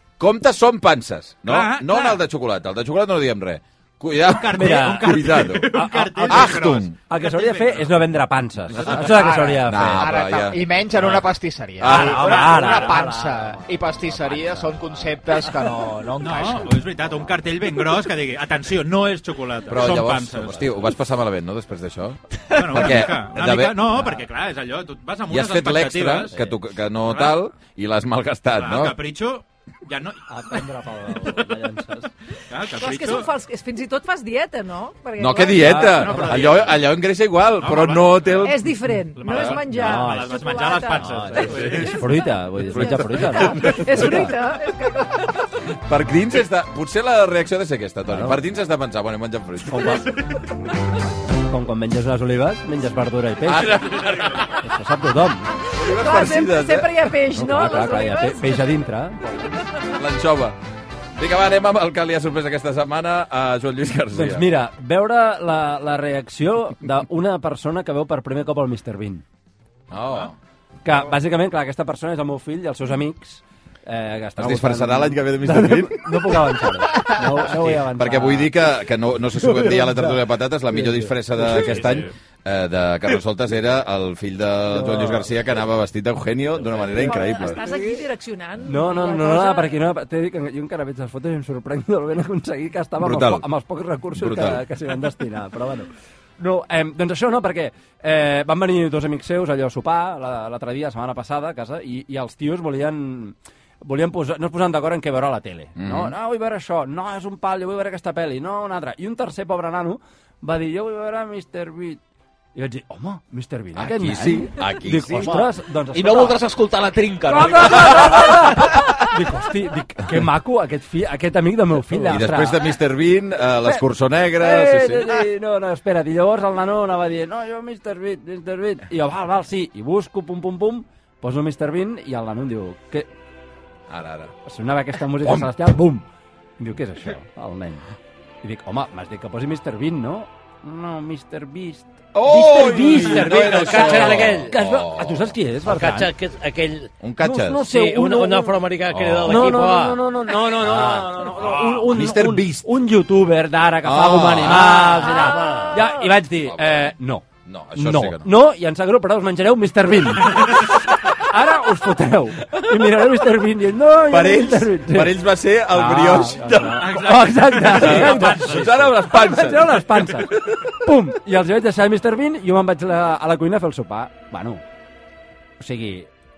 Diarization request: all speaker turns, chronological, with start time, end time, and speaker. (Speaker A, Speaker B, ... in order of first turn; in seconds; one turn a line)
Speaker A: 0.2-5.7
Speaker B: 1.4-2.2
Speaker B: 4.2-8.0
Speaker C: 4.5-10.1
Speaker A: 6.2-7.0
Speaker B: 8.7-9.2
Speaker D: 9.0-16.8
Speaker A: 9.6-11.2
Speaker A: 11.8-12.7
Speaker C: 11.8-15.2
Speaker B: 16.2-20.8
Speaker A: 19.7-24.1
Speaker B: 22.5-26.3
Speaker A: 25.3-29.0
Speaker B: 27.1-27.4
Speaker B: 28.6-30.7
Speaker C: 30.3-32.1
Speaker B: 32.5-33.3
Speaker E: 32.7-35.9
Speaker A: 35.2-38.7
Speaker C: 35.6-36.5
Speaker B: 35.8-36.8
Speaker B: 37.6-38.6
Speaker E: 38.4-45.5
Speaker B: 39.1-42.0
Speaker A: 39.3-39.6
Speaker C: 39.8-40.3
Speaker C: 40.9-44.3
Speaker A: 42.7-44.2
Speaker A: 45.8-50.1
Speaker C: 48.1-48.4
Speaker C: 49.7-50.2
Speaker C: 51.3-54.0
Speaker A: 53.5-54.5
Speaker C: 54.6-55.5
Speaker E: 55.7-58.7
Speaker A: 55.7-57.1
Speaker C: 57.3-59.5
Speaker A: 59.9-60.6
Speaker A: 61.2-64.5
Speaker C: 64.1-69.2
Speaker A: 69.9-70.3
Speaker C: 70.8-78.5
Speaker A: 74.4-76.6
Speaker A: 77.5-87.6
Speaker C: 79.3-82.1
Speaker C: 84.7-85.3
Speaker C: 86.7-88.0
Speaker E: 86.9-89.8
Speaker C: 88.6-112.0
Speaker A: 93.0-93.4
Speaker A: 94.1-94.6
Speaker A: 105.8-106.1
Speaker C: 112.5-116.4
Speaker A: 113.8-115.4
Speaker D: 115.2-118.9
Speaker C: 117.3-122.6
Speaker A: 117.9-118.7
Speaker A: 121.9-125.2
Speaker C: 124.4-133.1
Speaker A: 133.9-134.3
Speaker C: 134.4-136.0
Speaker A: 135.2-135.5
Speaker C: 136.6-137.8
Speaker C: 138.4-146.1
Speaker A: 142.1-145.3
Speaker F: 142.8-144.5
Speaker F: 145.6-146.9
Speaker A: 147.0-147.7
Speaker C: 147.2-148.6
Speaker F: 147.6-151.2
Speaker A: 148.9-149.5
Speaker C: 149.2-174.6
Speaker B: 151.4-151.9
Speaker A: 151.9-152.7
Speaker A: 153.8-154.9
Speaker F: 154.4-155.8
Speaker E: 154.9-156.2
Speaker A: 156.5-156.9
Speaker A: 157.4-158.3
Speaker A: 164.1-167.0
Speaker B: 166.7-168.8
Speaker A: 167.6-170.6
Speaker C: 175.6-176.1